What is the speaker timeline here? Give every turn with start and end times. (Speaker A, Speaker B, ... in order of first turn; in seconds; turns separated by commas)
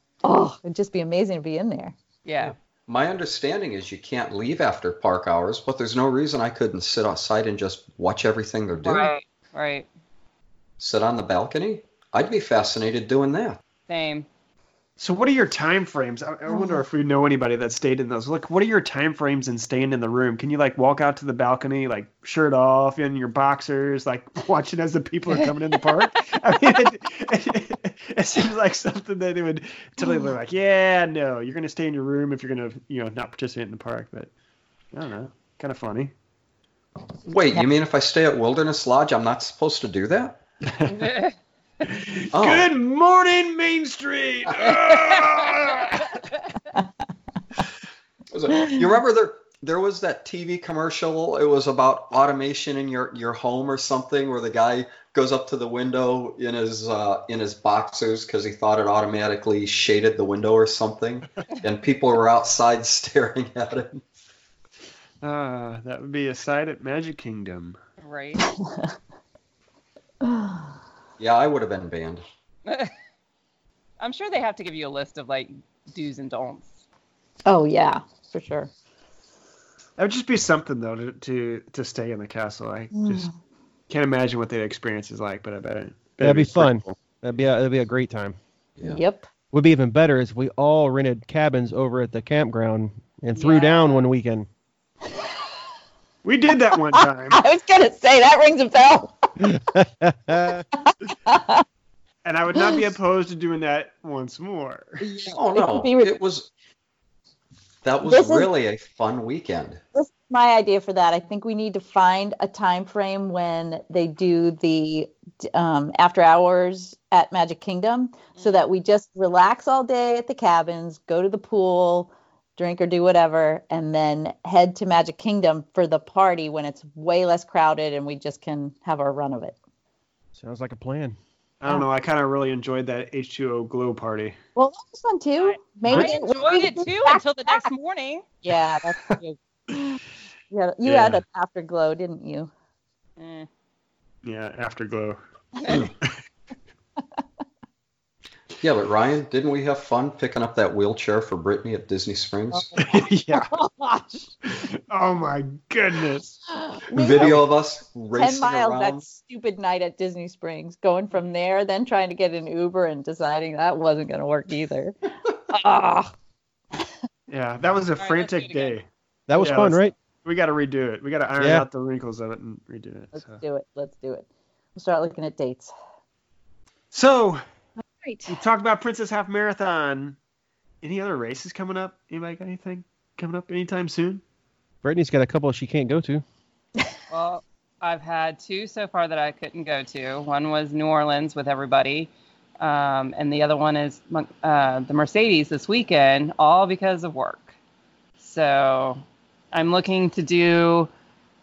Speaker A: 0.2-1.9, Speaker B: 2.2-2.5, Speaker C: 2.4-9.1, Speaker B: 8.8-9.9, Speaker C: 10.8-13.6, Speaker B: 13.9-14.3, Speaker D: 15.0-34.3, Speaker A: 16.5-16.8, Speaker A: 30.0-30.3, Speaker D: 34.9-36.1, Speaker C: 37.3-40.4, Speaker D: 40.7-41.1, Speaker B: 41.0-41.3, Speaker D: 41.8-46.3, Speaker C: 42.3-42.7, Speaker C: 48.3-64.0, Speaker A: 48.5-48.8, Speaker D: 65.2-67.8, Speaker B: 68.0-68.4, Speaker A: 68.4-69.0, Speaker A: 70.2-70.7, Speaker C: 71.2-72.2, Speaker B: 72.7-72.9, Speaker B: 74.0-76.7, Speaker A: 77.5-78.7, Speaker D: 80.0-83.3, Speaker A: 82.9-83.3, Speaker D: 83.9-87.0, Speaker E: 86.2-88.4, Speaker A: 88.8-89.3, Speaker E: 89.5-94.5, Speaker A: 93.4-93.7, Speaker B: 93.5-94.0, Speaker D: 96.2-97.4, Speaker A: 96.8-99.5, Speaker E: 99.4-100.6, Speaker A: 100.8-101.6, Speaker D: 102.2-105.0, Speaker A: 102.5-102.8, Speaker A: 105.0-106.1, Speaker C: 105.3-106.5, Speaker C: 107.8-109.8, Speaker A: 108.0-108.5, Speaker A: 109.9-129.6, Speaker E: 130.4-131.2, Speaker D: 131.6-134.4, Speaker A: 134.6-137.7, Speaker B: 135.4-138.2, Speaker A: 138.4-140.0, Speaker A: 140.5-142.5, Speaker D: 140.8-141.2, Speaker B: 143.2-143.5, Speaker D: 144.2-145.2, Speaker C: 148.6-152.7, Speaker A: 152.5-154.3, Speaker D: 152.8-153.5, Speaker D: 154.4-156.4, Speaker A: 156.5-157.4, Speaker C: 156.9-159.1, Speaker A: 158.2-164.9, Speaker A: 165.5-166.1, Speaker D: 167.3-168.8, Speaker B: 168.0-168.8, Speaker E: 169.3-169.9, Speaker D: 169.4-173.4, Speaker E: 171.4-171.7, Speaker A: 173.2-175.7, Speaker D: 176.9-177.4, Speaker A: 177.8-178.4, Speaker D: 178.3-180.2, Speaker D: 180.8-184.2, Speaker E: 184.8-186.2, Speaker B: 187.1-197.5, Speaker B: 198.2-200.9